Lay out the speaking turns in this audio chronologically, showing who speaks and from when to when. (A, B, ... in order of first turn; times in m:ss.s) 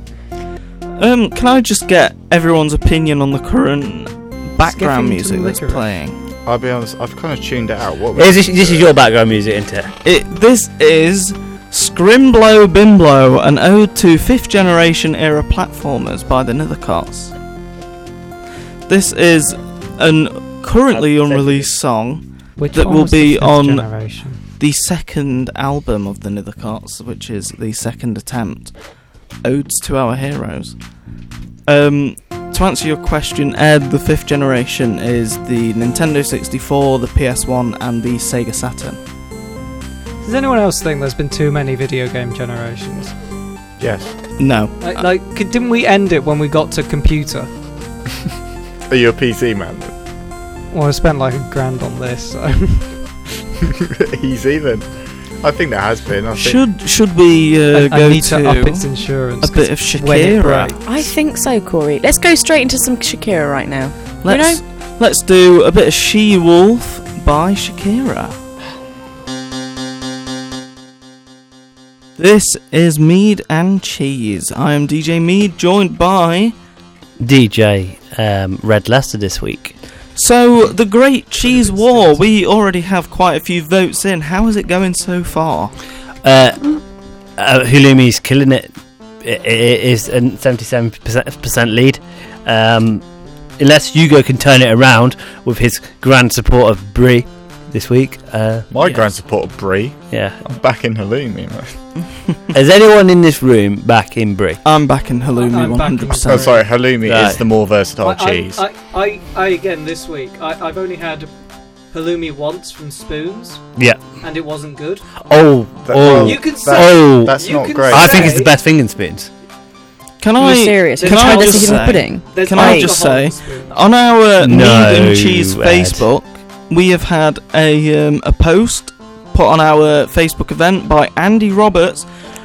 0:01.0-0:06.2 A
0:04.6-0:05.9 B
0:06.4-0:08.9 C
0:08.2-0:09.9 D
0:10.0-0:17.3 A
0:18.9-0:23.9 A
0:20.9-0:21.7 D
0:22.6-0:24.4 B
0:24.6-0:28.7 A
0:29.4-0:30.8 A
0:31.7-0:39.0 A
0:40.2-0:43.1 B
0:43.8-0:44.2 C
0:44.4-0:45.1 A
0:44.8-0:47.5 B
0:48.9-0:49.9 C
0:50.7-0:53.0 B
0:53.6-0:56.6 C
0:56.4-1:00.8 A
0:57.7-1:00.8 B
1:00.8-1:04.6 E
1:04.2-1:08.4 A
1:12.2-1:16.6 A
1:17.2-1:19.8 D
1:20.2-1:25.8 A
1:21.4-1:22.3 B
1:26.2-1:26.8 D
1:27.4-1:33.0 D
1:33.6-1:38.7 D
1:38.7-1:41.8 C
1:40.1-1:40.4 D
1:42.5-1:44.6 D
1:44.6-1:46.5 A
1:45.4-1:46.7 B
1:46.3-1:48.6 C
1:47.0-1:47.4 D
1:48.0-1:51.3 B
1:51.9-1:53.6 B
1:53.8-1:54.0 D
1:54.2-1:55.1 B
1:55.3-1:59.3 D
1:55.8-1:58.3 C
1:56.1-1:58.5 B
2:00.2-2:12.1 A
2:00.4-2:03.0 E
2:01.0-2:03.7 B
2:04.4-2:06.0 D